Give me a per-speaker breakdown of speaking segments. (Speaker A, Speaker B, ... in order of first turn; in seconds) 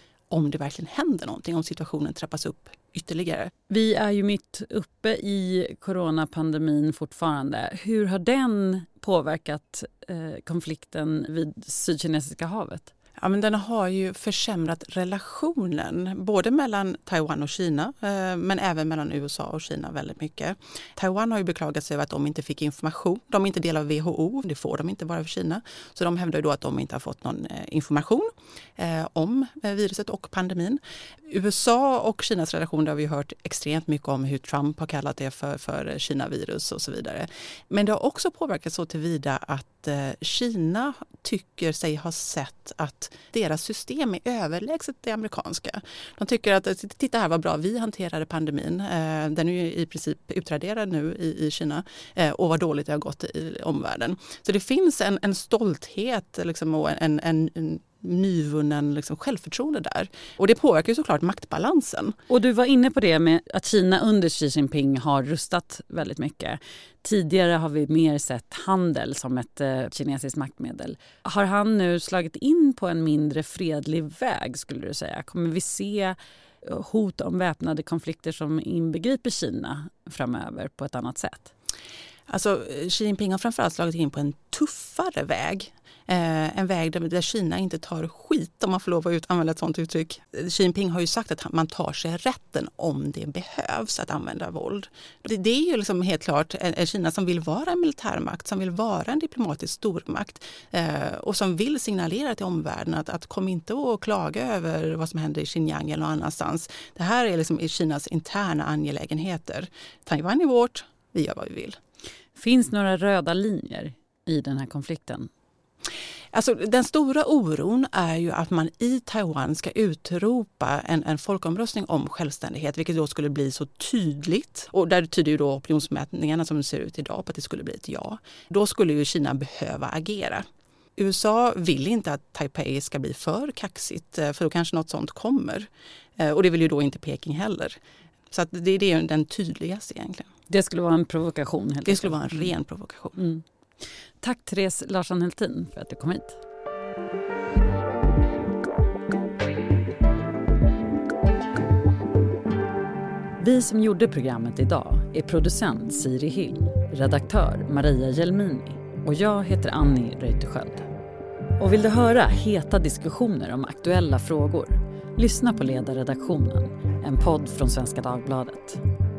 Speaker A: 0.3-3.5, 13.2-62.1, 82.3-111.8, 116.3-130.4, 131.0-137.8, 138.3-140.3, 141.9-143.2
Speaker B: 3.7-12.9, 62.3-81.5, 112.4-115.3, 140.5-142.5, 143.2-143.4, 144.2-146.4, 153.4-160.9, 161.6-168.8